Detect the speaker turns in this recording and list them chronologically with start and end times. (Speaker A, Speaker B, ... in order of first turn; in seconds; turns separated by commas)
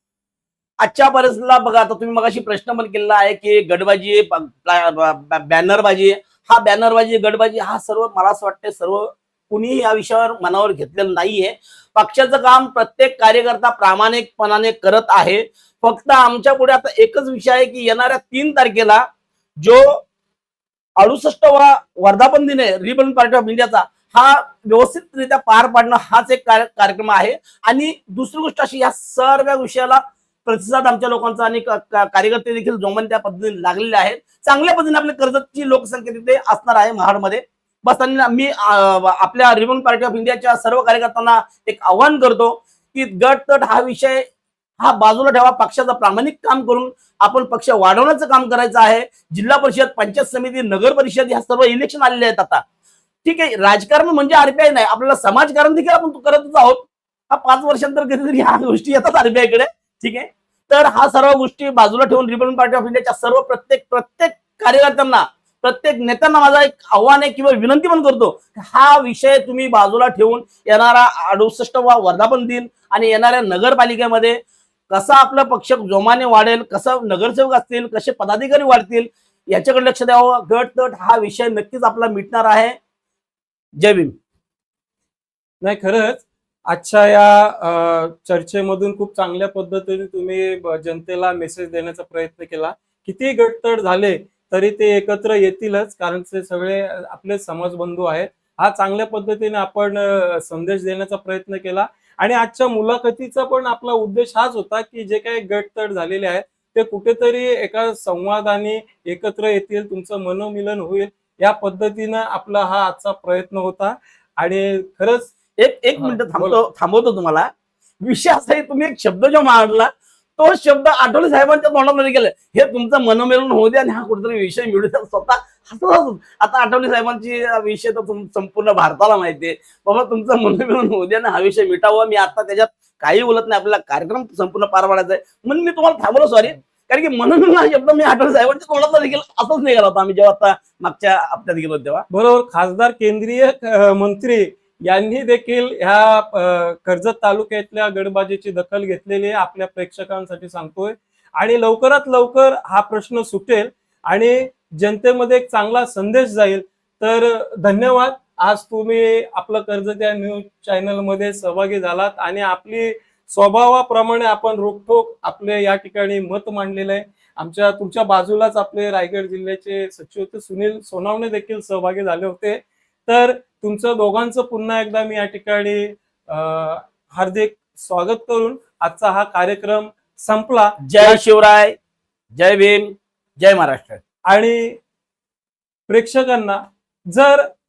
Speaker A: 0.8-19.0, Speaker A: 19.6-20.0, Speaker A: 21.0-44.2, Speaker A: 44.8-52.6, Speaker A: 53.2-74.4, Speaker A: 74.9-82.8, Speaker A: 83.8-84.1, Speaker B: 85.6-115.3, Speaker A: 115.6-117.5, Speaker B: 116.0-116.6, Speaker A: 118.0-142.1, Speaker B: 142.1-181.2, Speaker A: 180.8-181.8, Speaker A: 182.3-184.0, Speaker B: 184.3-184.8, Speaker B: 185.9-187.5